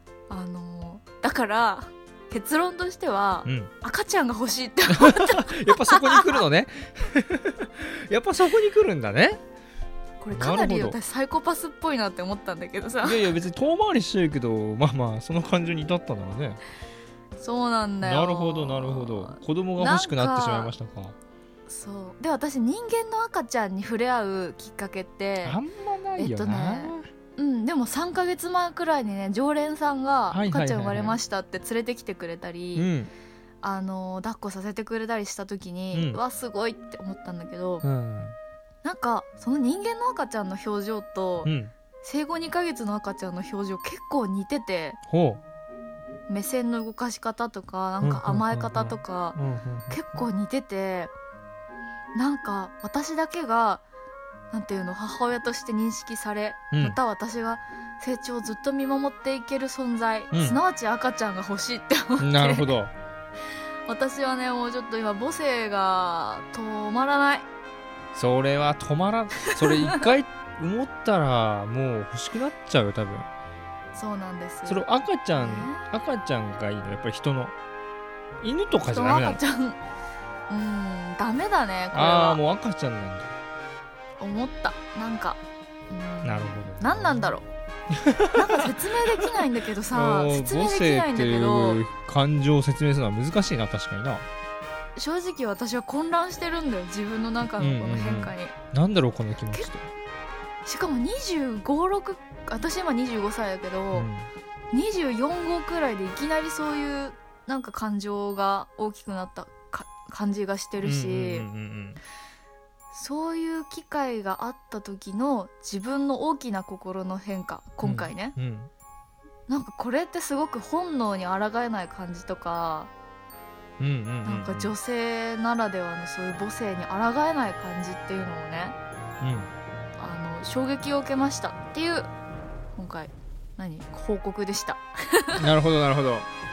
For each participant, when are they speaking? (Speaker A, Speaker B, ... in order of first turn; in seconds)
Speaker A: 0.3-6.4, 10.2-13.3, 17.4-20.7, 21.7-25.6, 26.2-32.9, 33.6-37.8, 38.8-45.0, 46.3-49.4, 49.9-51.1, 52.1-53.8, 54.5-62.7, 63.9-67.5, 69.5-70.0, 73.9-74.8, 75.3-75.8, 78.9-79.8, 80.5-82.4, 84.2-87.4, 88.3-91.8, 95.0-98.5, 100.6-104.1, 104.7-111.5, 112.9-118.3, 119.5-122.9, 124.2-128.8, 130.0-132.1, 132.8-135.4
Speaker B: 3.4-3.7, 5.0-9.4, 10.3-11.0, 13.0-16.6, 18.0-21.1, 25.4-27.1, 30.3-31.2, 32.7-33.1, 35.9-36.2, 37.8-38.4, 41.4-41.7, 45.1-45.4, 48.0-50.0, 56.7-57.0, 60.3-60.6, 62.2-62.9, 68.1-73.3, 74.7-77.5, 78.4-79.4, 81.9-83.3, 86.2-87.3, 87.9-94.2, 97.6-99.9, 103.9-104.3, 110.8-112.0, 117.8-118.7, 123.8-124.7, 129.2-129.5, 135.4-136.3